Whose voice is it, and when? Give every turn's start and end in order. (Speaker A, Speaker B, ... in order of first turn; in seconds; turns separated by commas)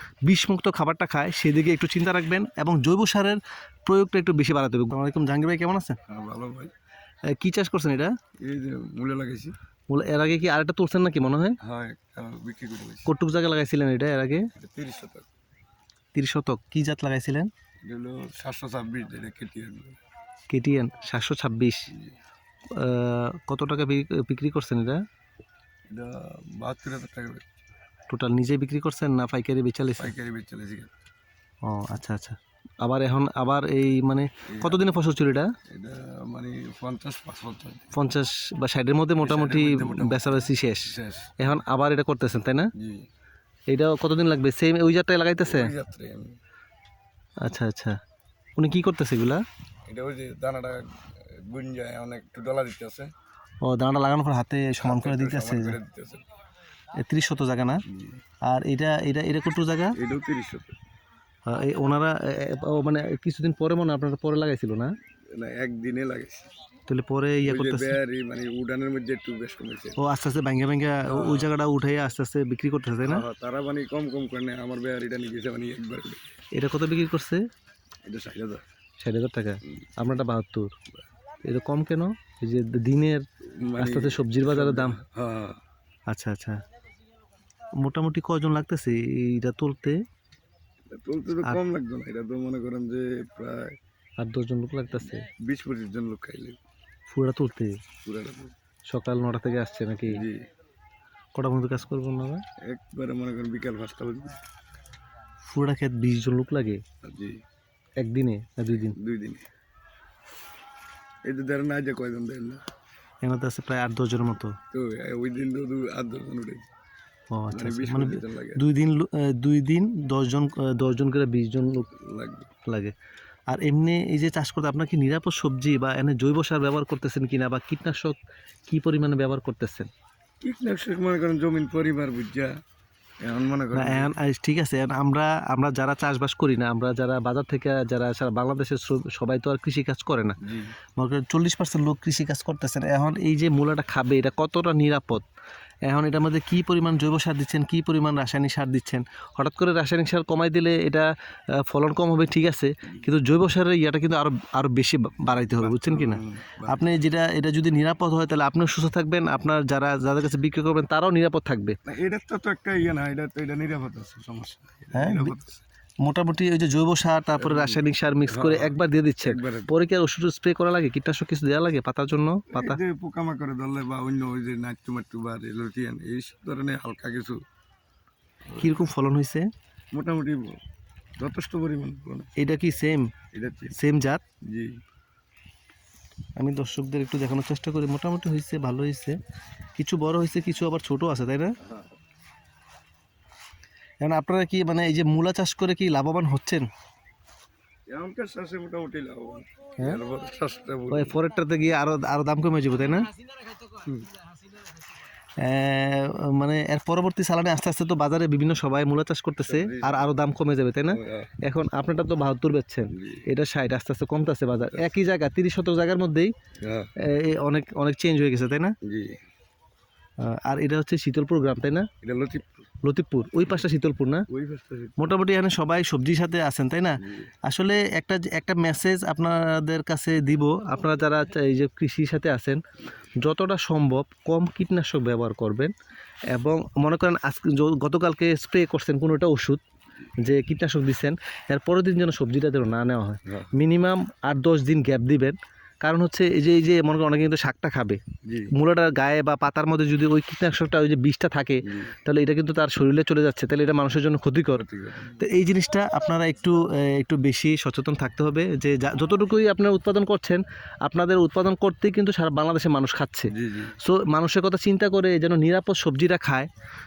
Speaker A: 0.2-6.0, Speaker B: 6.1-6.7, Speaker A: 7.3-8.1, Speaker B: 8.4-9.5, Speaker A: 9.9-11.6, Speaker B: 11.6-13.1, Speaker A: 13.1-14.5, Speaker B: 14.6-15.3, Speaker A: 16.1-17.5, Speaker B: 17.8-20.0, Speaker A: 20.5-21.9, Speaker A: 22.7-25.0, Speaker B: 25.9-27.4, Speaker A: 28.1-30.1, Speaker B: 30.0-30.9, Speaker A: 31.6-35.5, Speaker B: 34.5-35.0, Speaker B: 35.6-37.9, Speaker A: 37.9-42.7, Speaker B: 39.2-41.4, Speaker B: 42.8-43.1, Speaker A: 43.7-45.7, Speaker B: 45.4-46.4, Speaker A: 47.4-48.0, Speaker A: 48.6-49.4, Speaker B: 49.9-53.1, Speaker A: 53.6-55.8, Speaker B: 54.8-56.2, Speaker A: 57.0-57.8, Speaker B: 57.9-58.2, Speaker A: 58.4-60.0, Speaker B: 60.0-60.7, Speaker A: 61.5-64.9, Speaker B: 65.3-66.5, Speaker A: 66.9-68.0, Speaker B: 67.4-70.0, Speaker A: 70.0-73.2, Speaker B: 71.1-71.5, Speaker B: 73.0-76.2, Speaker A: 76.5-77.4, Speaker B: 78.0-78.6, Speaker A: 79.0-80.7, Speaker A: 81.4-83.2, Speaker B: 83.6-85.6, Speaker A: 83.8-85.0, Speaker A: 86.1-86.6, Speaker A: 87.8-90.0, Speaker B: 90.9-93.8, Speaker A: 94.2-95.3, Speaker B: 95.2-96.6, Speaker A: 97.1-97.8, Speaker B: 98.0-98.5, Speaker A: 98.9-100.2, Speaker B: 100.1-100.5, Speaker A: 101.3-102.4, Speaker B: 102.6-104.4, Speaker A: 105.5-106.8, Speaker B: 107.0-107.4, Speaker A: 108.0-109.0, Speaker B: 108.9-109.5, Speaker B: 111.2-112.6, Speaker A: 113.2-114.5, Speaker B: 114.7-116.7, Speaker A: 117.3-121.9, Speaker B: 117.5-118.6, Speaker B: 122.0-122.5, Speaker A: 122.7-122.9, Speaker A: 123.5-129.9, Speaker B: 130.4-132.5, Speaker B: 133.2-134.1, Speaker A: 133.7-140.4, Speaker B: 140.4-140.7, Speaker A: 141.0-145.2, Speaker A: 145.9-161.8, Speaker B: 155.6-156.9, Speaker B: 161.8-165.6, Speaker A: 164.9-165.4, Speaker A: 166.0-172.8, Speaker B: 167.4-169.7, Speaker B: 172.5-177.4, Speaker B: 178.5-178.8, Speaker A: 178.6-179.5, Speaker B: 179.9-180.6, Speaker B: 181.2-182.3, Speaker A: 182.4-183.1, Speaker B: 183.3-183.8, Speaker A: 183.7-184.2, Speaker B: 184.4-184.8, Speaker A: 186.4-189.2, Speaker A: 189.8-191.6, Speaker A: 194.0-196.7, Speaker B: 197.9-201.2, Speaker A: 200.9-203.1, Speaker A: 205.4-216.3, Speaker B: 209.5-210.1, Speaker B: 210.9-211.3, Speaker B: 212.9-213.2, Speaker B: 216.6-216.9, Speaker A: 217.0-218.8, Speaker B: 218.8-219.2, Speaker A: 220.2-221.9, Speaker B: 222.0-222.6, Speaker A: 222.8-224.3, Speaker B: 224.3-225.2, Speaker A: 225.0-232.6, Speaker B: 227.0-227.3, Speaker A: 233.2-235.7, Speaker A: 236.3-239.6, Speaker A: 240.2-248.0, Speaker B: 243.2-243.5, Speaker B: 248.2-248.5, Speaker A: 248.5-266.5, Speaker B: 251.6-251.9, Speaker B: 254.6-255.2, Speaker B: 263.3-263.8